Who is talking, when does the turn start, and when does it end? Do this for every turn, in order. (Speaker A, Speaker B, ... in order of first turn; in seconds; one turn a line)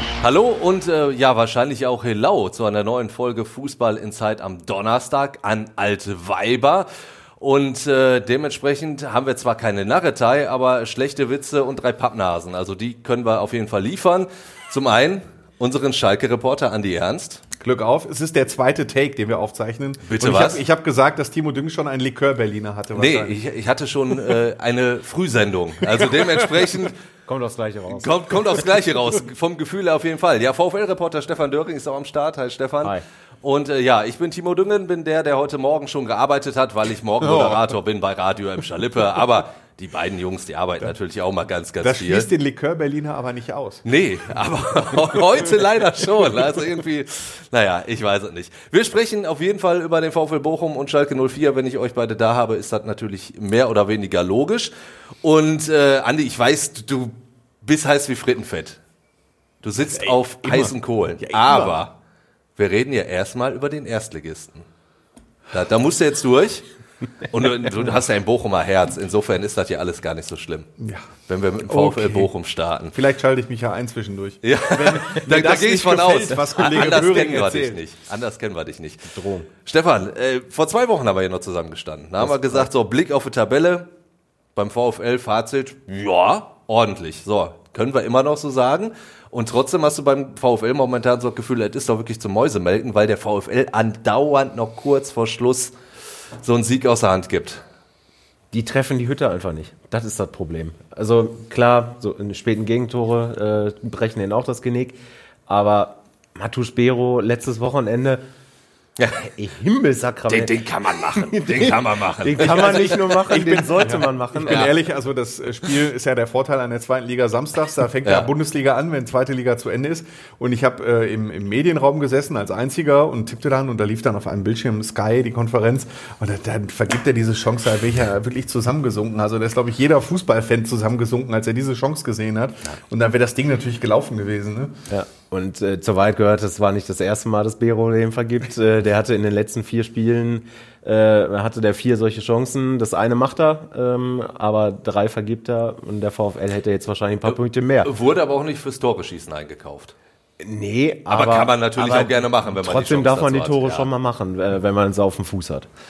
Speaker A: 0.2-6.9
Speaker A: 7.4-17.4
Speaker B: 17.6-23.4
Speaker A: 20.1-20.6
Speaker A: 22.9-26.9
Speaker B: 25.9-26.8
Speaker C: 27.3-28.1
Speaker A: 27.9-42.3
Speaker B: 37.2-37.6
Speaker B: 41.8-43.9
Speaker A: 43.9-54.7
Speaker A: 55.2-58.8
Speaker A: 59.6-61.9
Speaker B: 59.9-61.9
Speaker A: 62.6-64.7
Speaker A: 65.5-66.7
Speaker A: 67.3-70.7
Speaker B: 70.8-71.1
Speaker A: 71.3-73.0
Speaker B: 71.7-72.3
Speaker B: 72.9-77.8
Speaker A: 74.4-83.9
Speaker C: 79.0-79.5
Speaker A: 84.6-95.7
Speaker A: 96.4-97.6
Speaker C: 98.5-108.2
Speaker C: 109.2-114.7
Speaker A: 110.3-113.0
Speaker B: 112.4-134.8
Speaker A: 114.5-114.7
Speaker A: 118.0-118.3
Speaker C: 134.9-147.9
Speaker A: 147.3-149.9
Speaker C: 150.4-155.7
Speaker A: 151.1-153.9